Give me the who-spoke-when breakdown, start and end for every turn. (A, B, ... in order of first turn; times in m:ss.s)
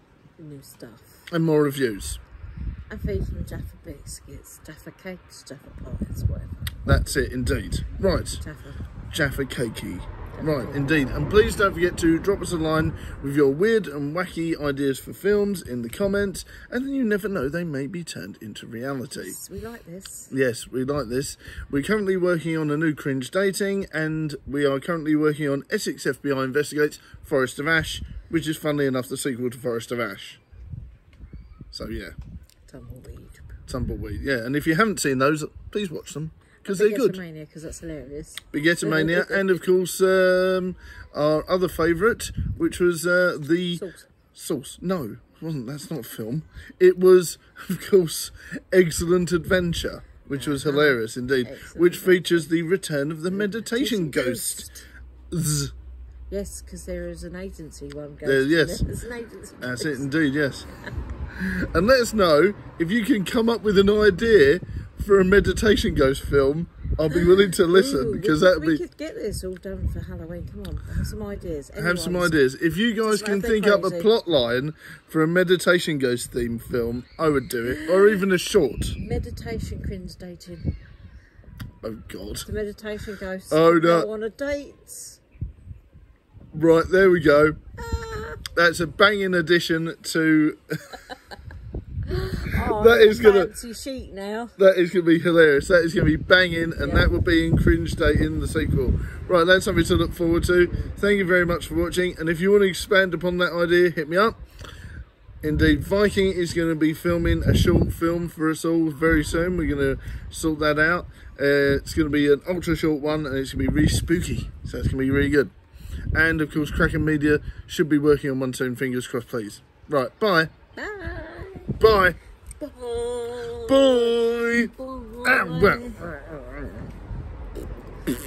0:00.4-0:01.3 A
0:01.3-0:02.2 B
0:02.9-0:06.8 A
0:06.8-0:08.4 B
0:08.3-0:08.8 A
0:09.1-0:19.4 B
0:10.3-0:11.0 A
0:19.1-0:20.3 A
0:20.3-0:30.4 B
0:31.7-0:32.2 B
0:32.7-0:33.6 A
0:33.7-0:37.2 B
0:36.7-0:39.6 A
0:38.5-0:43.8 B
0:43.8-0:44.1 A
0:44.3-0:54.7 B
0:50.3-0:52.5 A
0:53.3-0:54.9 A
0:55.3-0:55.7 B
0:56.3-1:00.1 A
0:58.2-0:58.8 B
0:59.6-1:00.7 B
1:01.4-1:08.8 B
1:07.1-1:12.4 A
1:11.8-1:19.0 B
1:13.0-1:14.1 A
1:17.6-1:18.2 A
1:19.0-1:20.7 A
1:21.8-1:22.5 B
1:22.4-1:25.2 A
1:23.5-1:24.1 B
1:26.5-1:27.6 B
1:27.8-1:28.4 A
1:28.5-1:31.0 B
1:32.1-1:34.6 A
1:32.6-1:33.5 B
1:34.6-1:44.4 B
1:36.8-1:37.1 A
1:45.4-1:55.5 B
1:56.1-2:00.5 B
2:00.8-2:01.8 A
2:01.8-2:02.2 B
2:02.6-2:06.9 A
2:03.7-2:04.7 B
2:05.2-2:06.0 B